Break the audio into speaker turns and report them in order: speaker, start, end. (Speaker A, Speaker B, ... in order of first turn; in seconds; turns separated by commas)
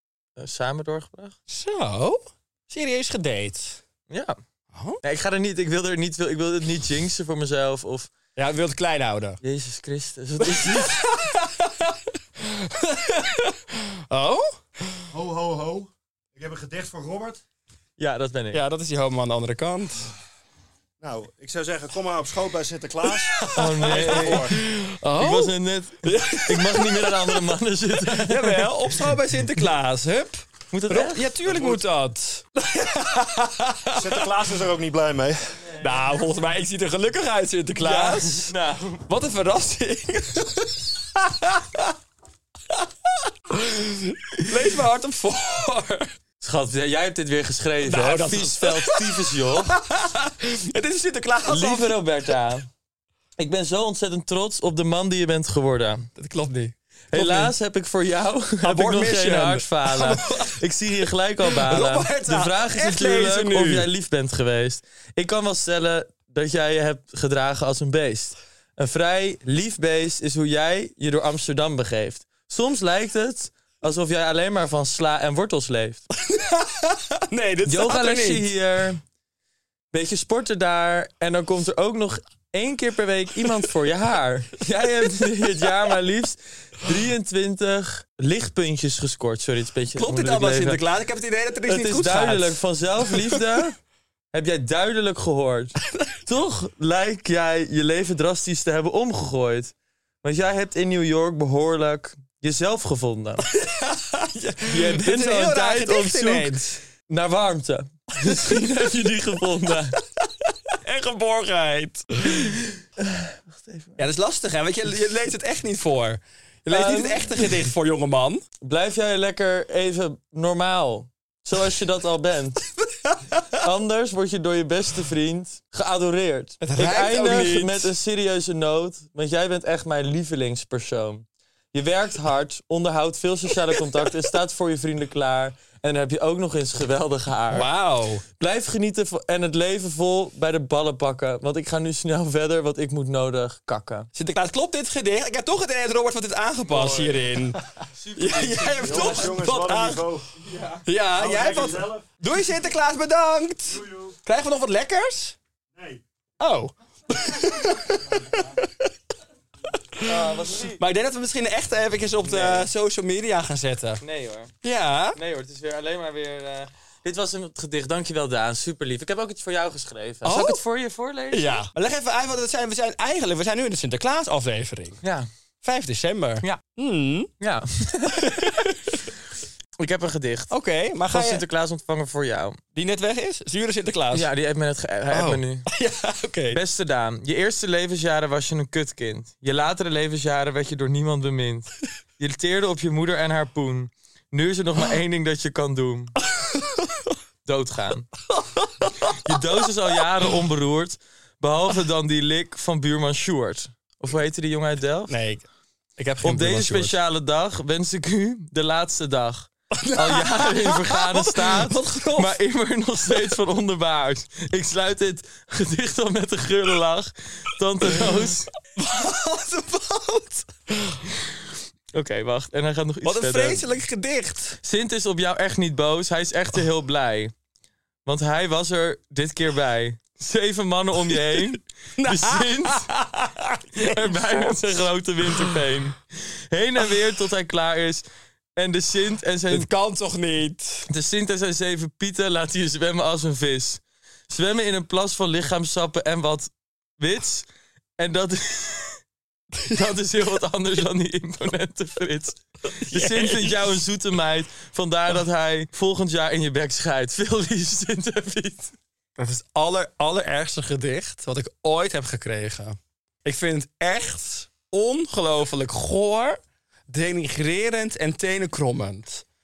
Speaker A: 0.3-1.4, Speaker B: 1.5-3.8, Speaker A: 4.1-4.4, Speaker B: 4.7-5.0, Speaker A: 5.0-8.1, Speaker B: 8.3-9.4, Speaker A: 9.4-11.0, Speaker B: 10.4-14.6, Speaker C: 15.1-17.4, Speaker A: 18.0-18.6, Speaker B: 18.5-20.1, Speaker C: 21.0-24.6, Speaker B: 23.4-27.5, Speaker A: 23.5-24.6, Speaker A: 25.2-29.1, Speaker B: 28.1-34.2, Speaker A: 30.7-31.8, Speaker C: 33.9-35.6, Speaker B: 35.8-38.5, Speaker A: 37.8-39.0, Speaker B: 39.1-41.9, Speaker B: 42.7-46.1, Speaker A: 46.4-49.7, Speaker B: 47.8-52.0, Speaker A: 51.5-52.7, Speaker A: 53.4-56.1, Speaker B: 56.1-57.5, Speaker A: 57.1-76.1, Speaker B: 58.6-60.6, Speaker B: 61.4-63.9, Speaker B: 76.2-78.5, Speaker A: 77.6-79.0, Speaker A: 79.9-90.8, Speaker B: 89.9-92.6, Speaker A: 91.7-93.8, Speaker B: 93.1-93.4, Speaker A: 94.3-103.4, Speaker B: 103.4-106.8, Speaker A: 104.7-110.0, Speaker B: 108.2-108.6, Speaker B: 110.2-112.5, Speaker A: 112.3-114.0, Speaker B: 114.0-118.4, Speaker A: 116.7-117.7, Speaker A: 118.6-122.6, Speaker B: 122.8-123.6, Speaker A: 123.5-137.7, Speaker B: 126.6-127.9, Speaker B: 137.5-138.2, Speaker A: 138.4-144.1, Speaker B: 144.1-147.6, Speaker C: 146.8-147.1, Speaker C: 148.0-152.1, Speaker B: 148.2-150.0, Speaker A: 148.4-150.0, Speaker B: 150.8-155.4, Speaker C: 153.7-154.1, Speaker C: 155.8-156.0, Speaker B: 156.4-158.9, Speaker B: 159.9-164.0, Speaker A: 160.0-160.8, Speaker A: 162.2-162.7, Speaker A: 164.0-164.5, Speaker B: 164.6-165.2, Speaker A: 165.1-171.6, Speaker B: 170.2-170.6, Speaker B: 171.3-175.0, Speaker A: 175.0-175.3, Speaker B: 175.6-177.3, Speaker A: 177.4-178.7, Speaker B: 178.1-179.1, Speaker A: 179.8-180.5, Speaker B: 180.5-181.4, Speaker A: 181.1-182.6, Speaker B: 182.7-184.3, Speaker A: 184.1-185.7, Speaker B: 185.1-186.6, Speaker A: 186.5-196.1, Speaker B: 196.3-197.0, Speaker A: 197.4-198.1, Speaker B: 198.3-199.4, Speaker A: 199.1-205.1, Speaker B: 205.1-205.4, Speaker B: 206.0-207.0, Speaker A: 206.2-218.5, Speaker B: 209.7-212.4, Speaker B: 218.7-221.1, Speaker A: 221.9-223.7, Speaker B: 223.0-224.6, Speaker A: 224.6-227.3, Speaker A: 228.1-232.9, Speaker B: 232.0-234.6, Speaker A: 233.7-239.7, Speaker B: 235.2-235.6, Speaker B: 239.5-240.9, Speaker A: 240.9-249.0, Speaker A: 249.7-258.8, Speaker B: 252.7-253.8, Speaker B: 259.2-269.2